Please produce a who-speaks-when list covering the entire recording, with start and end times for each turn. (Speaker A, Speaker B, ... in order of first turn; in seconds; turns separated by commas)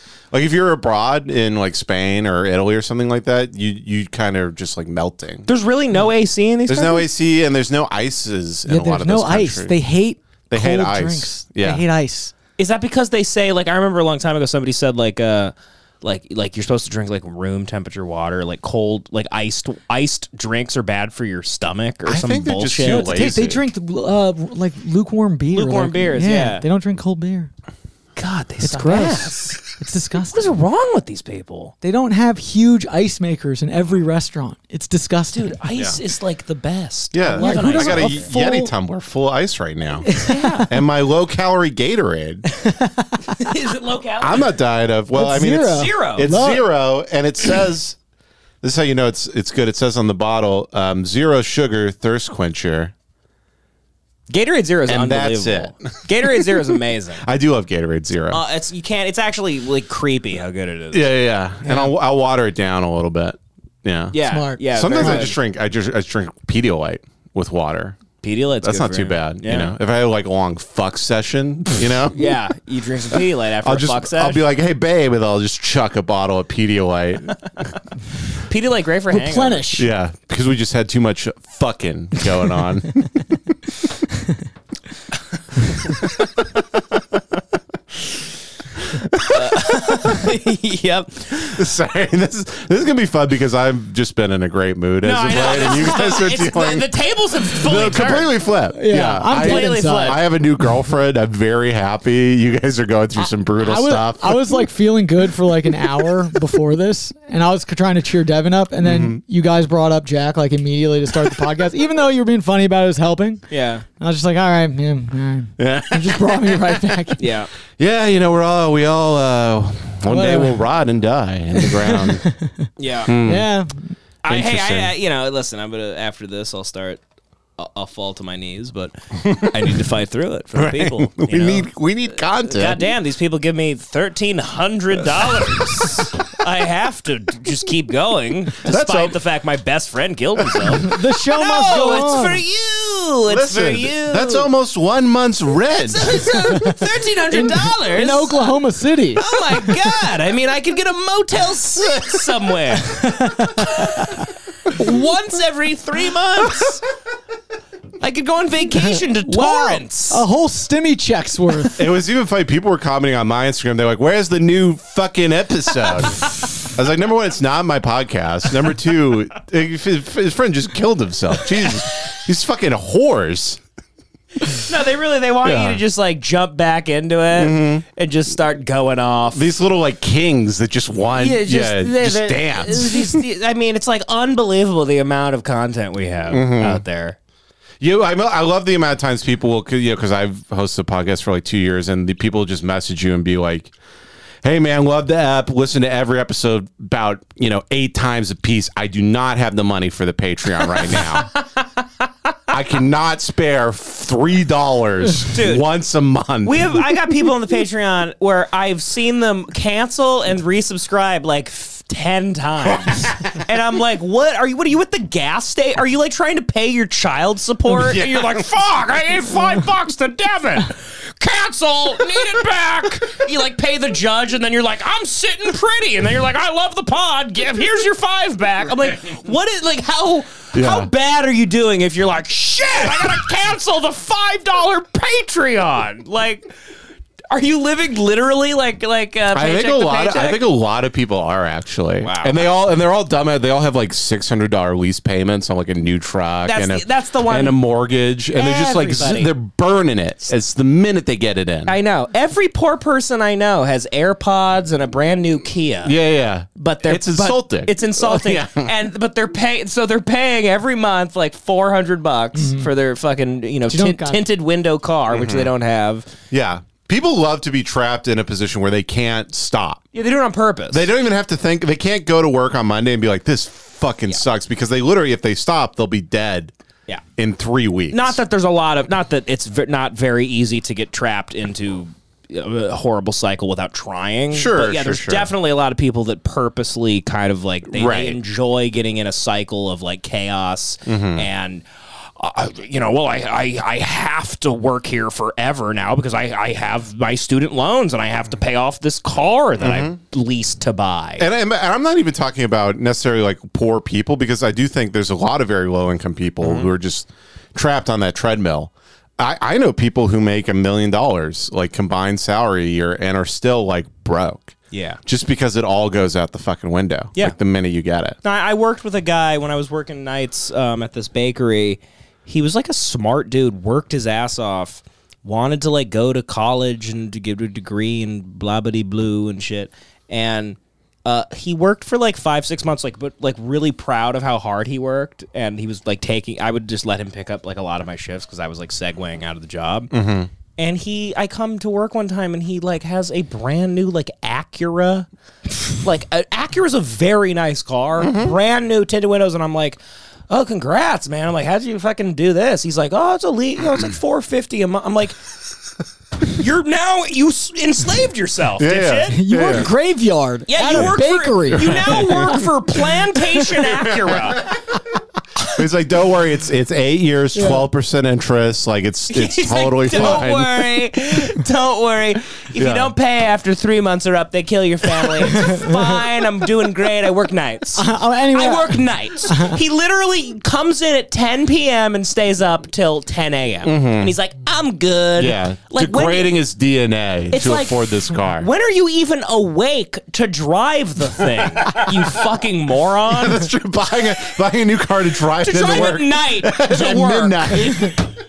Speaker A: 0.3-5.5, Speaker B: 5.5-7.1, Speaker A: 6.7-9.8, Speaker C: 8.7-12.3, Speaker A: 10.5-11.8, Speaker B: 12.6-23.1, Speaker A: 22.0-23.6, Speaker C: 22.8-27.5, Speaker B: 25.5-26.6, Speaker B: 28.1-29.6, Speaker C: 28.6-30.5, Speaker B: 30.3-31.7, Speaker C: 31.8-35.5, Speaker B: 35.3-38.3, Speaker A: 37.1-42.5, Speaker C: 37.3-38.7, Speaker C: 40.1-40.7, Speaker B: 40.2-40.7, Speaker C: 42.6-43.2, Speaker B: 43.3-44.5, Speaker A: 44.2-48.0, Speaker C: 45.1-46.6, Speaker B: 45.6-46.3, Speaker A: 48.6-52.9, Speaker B: 54.3-57.2, Speaker A: 54.9-56.5, Speaker A: 57.2-58.4, Speaker B: 58.3-61.1, Speaker A: 60.9-68.0, Speaker B: 64.1-65.4, Speaker C: 64.2-65.3, Speaker B: 68.2-69.7, Speaker A: 68.6-72.2, Speaker B: 72.1-74.4, Speaker A: 73.6-77.7, Speaker B: 78.5-79.8, Speaker C: 79.1-79.8, Speaker A: 79.8-83.2, Speaker A: 89.0-90.1, Speaker B: 89.3-91.5, Speaker A: 91.4-96.9, Speaker B: 95.0-98.3, Speaker A: 97.5-104.6, Speaker C: 98.7-100.2, Speaker B: 99.3-100.2, Speaker C: 103.2-113.5, Speaker A: 108.8-109.2, Speaker B: 113.5-113.8, Speaker C: 114.0-117.2, Speaker A: 115.6-117.0, Speaker B: 117.2-117.5, Speaker A: 117.8-122.2, Speaker C: 120.1-120.7, Speaker C: 121.6-122.7, Speaker B: 122.8-123.1, Speaker A: 123.0-123.5, Speaker C: 123.2-123.9, Speaker B: 124.2-127.0, Speaker A: 124.2-124.9, Speaker B: 127.6-131.7, Speaker A: 130.5-132.9, Speaker B: 132.4-144.5, Speaker A: 138.6-139.2, Speaker C: 140.7-142.4, Speaker A: 143.3-146.2, Speaker B: 145.9-148.4, Speaker C: 146.5-149.2, Speaker B: 149.2-153.6, Speaker C: 153.2-154.1, Speaker B: 154.7-156.8, Speaker B: 158.0-160.2, Speaker C: 159.2-161.9, Speaker A: 161.8-173.6, Speaker B: 174.5-179.5, Speaker A: 175.4-175.8, Speaker A: 177.3-177.8, Speaker A: 179.3-183.2, Speaker B: 181.2-187.2, Speaker A: 186.3-186.8, Speaker A: 187.8-193.7, Speaker A: 194.4-201.3, Speaker B: 200.6-201.4, Speaker A: 202.5-206.8, Speaker B: 205.3-205.6, Speaker B: 206.4-236.5, Speaker A: 217.7-218.4, Speaker A: 230.5-230.9, Speaker B: 237.3-240.4, Speaker A: 239.3-251.8, Speaker B: 242.0-242.4, Speaker B: 246.4-247.6, Speaker B: 248.3-249.3, Speaker B: 251.7-255.9, Speaker A: 255.8-258.7, Speaker B: 256.6-266.1, Speaker C: 262.4-262.7, Speaker C: 263.7-264.2, Speaker A: 265.1-265.5, Speaker A: 266.3-269.8, Speaker B: 269.9-270.9, Speaker A: 270.7-276.5, Speaker A: 277.2-278.2, Speaker B: 277.9-291.6, Speaker A: 284.3-285.3, Speaker A: 287.7-288.2, Speaker A: 290.9-291.2, Speaker B: 292.2-301.2, Speaker A: 299.6-300.0, Speaker A: 301.2-314.5, Speaker B: 306.4-306.7, Speaker B: 314.7-315.0, Speaker A: 315.1-318.2, Speaker B: 318.2-339.9, Speaker A: 339.9-340.3, Speaker B: 340.6-345.1, Speaker B: 345.8-355.2, Speaker A: 348.0-348.3, Speaker B: 356.3-359.2, Speaker A: 358.6-359.7, Speaker C: 359.1-362.5, Speaker B: 360.5-364.5, Speaker A: 361.6-362.4, Speaker A: 363.8-364.6, Speaker A: 365.5-370.7, Speaker C: 367.3-367.6, Speaker B: 369.1-386.4, Speaker A: 372.5-372.9, Speaker C: 375.3-375.9, Speaker C: 377.8-379.6, Speaker A: 383.6-384.1, Speaker A: 385.1-388.5, Speaker B: 387.3-393.5, Speaker A: 393.1-398.0, Speaker B: 395.4-397.8